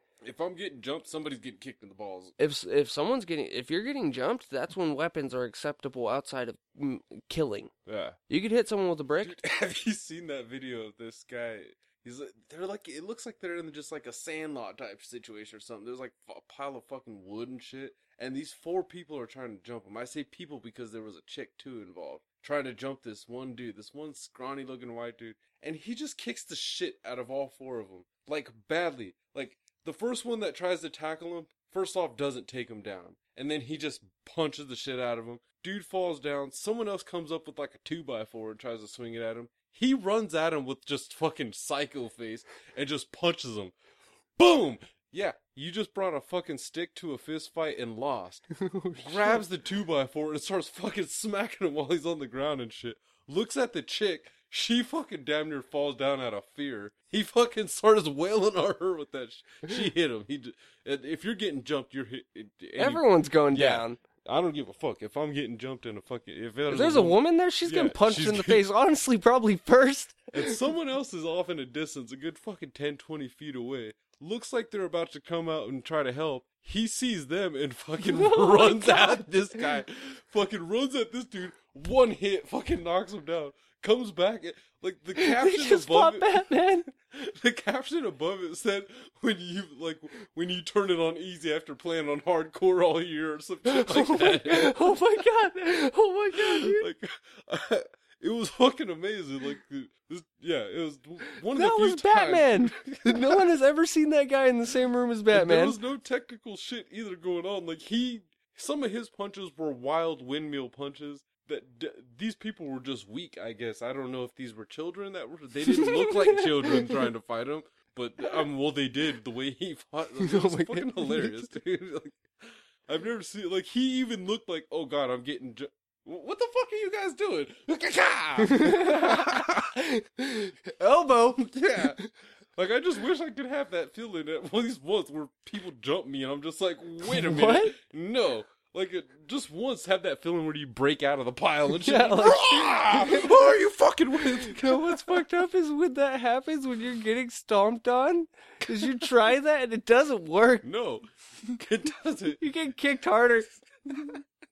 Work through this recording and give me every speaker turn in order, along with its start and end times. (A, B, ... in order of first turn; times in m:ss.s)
0:00.2-0:02.3 A
0:02.4-0:07.7 B
0:07.8-0:08.2 A
0:08.3-0:09.4 B
0:09.2-0:43.7 A
0:44.4-1:08.6 A
0:48.5-0:49.4 B
1:02.8-1:04.0 B
1:06.7-1:10.6 B
1:10.3-1:35.2 A
1:18.0-1:19.7 B
1:25.1-1:26.9 B
1:33.6-1:36.9 B
1:36.3-1:43.5 A
1:41.5-1:45.8 B
1:45.3-2:09.7 A
1:55.7-1:57.0 B
2:00.2-2:01.5 B
2:08.4-2:12.1 B
2:11.3-2:12.0 A
2:12.5-2:25.2 A
2:17.0-2:17.7 B
2:21.8-2:23.4 B
2:24.2-2:30.6 B
2:30.6-2:32.5 A
2:32.4-2:34.2 B
2:33.9-2:34.2 A